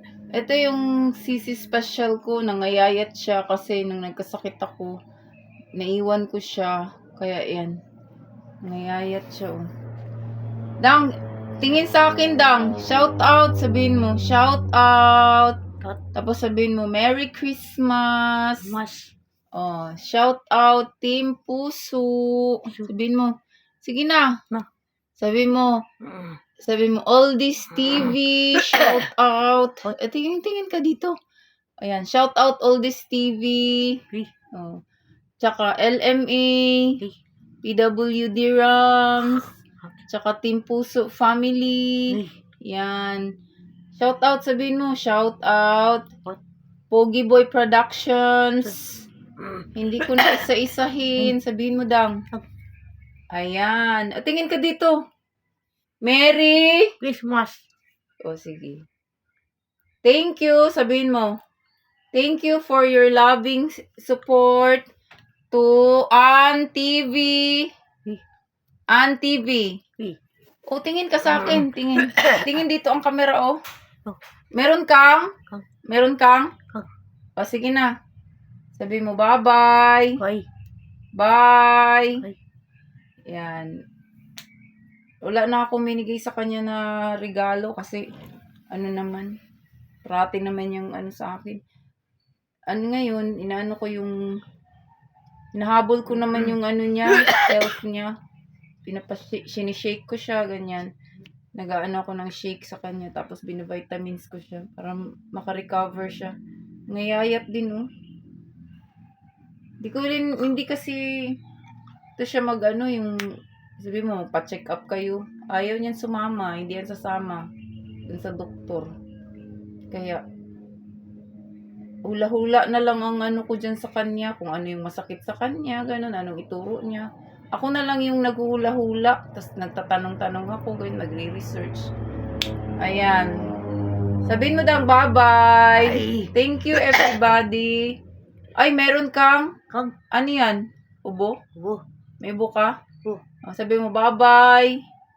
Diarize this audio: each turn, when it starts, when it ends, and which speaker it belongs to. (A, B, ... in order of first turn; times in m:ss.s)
0:00.3-0:04.9 A
0:05.8-0:07.7 A
0:08.6-0:09.6 A
0:11.6-0:15.6 A
0:16.1-0:18.7 A
0:18.6-0:19.1 B
0:19.5-0:24.3 A
0:25.2-0:25.8 A
0:26.0-0:26.4 B
0:26.6-0:31.2 A
0:27.7-0:29.0 B
0:31.8-0:34.0 A
0:35.4-0:36.9 A
0:37.6-0:39.5 A
0:39.3-0:39.9 B
0:40.1-0:43.2 A
0:42.1-0:42.4 B
0:44.0-0:46.0 A
0:46.9-0:48.8 A
0:48.6-0:50.4 B
0:49.7-0:52.2 A
0:53.3-0:54.9 A
0:56.0-0:56.9 A
0:57.0-0:57.6 B
0:58.2-0:58.8 A
1:00.0-1:01.3 A
1:02.1-1:04.9 A
1:05.5-1:07.7 A
1:08.9-1:09.8 A
1:10.7-1:13.6 A
1:11.3-1:12.5 B
1:14.5-1:15.3 A
1:15.9-1:16.5 A
1:17.4-1:17.9 A
1:18.7-1:20.1 A
1:20.2-1:20.4 B
1:21.2-1:22.2 A
1:23.3-1:23.7 A
1:25.2-1:28.0 A
1:28.7-1:29.3 A
1:30.0-1:31.6 A
1:32.7-1:34.1 A
1:35.5-1:38.1 A
1:37.2-1:37.6 B
1:38.9-1:40.9 A
1:41.6-1:46.3 A
1:46.9-1:47.8 A
1:49.8-1:51.3 A
1:52.2-1:53.2 A
1:53.8-1:57.4 A
1:58.1-1:58.9 A
1:59.9-2:00.2 A
2:02.1-2:11.9 A
2:12.8-2:13.3 A
2:14.3-2:17.9 A
2:15.8-2:17.2 B
2:18.6-2:19.5 A
2:19.7-2:20.0 B
2:20.1-2:21.4 A
2:21.5-2:21.8 B
2:22.2-2:22.7 A
2:23.5-2:24.7 A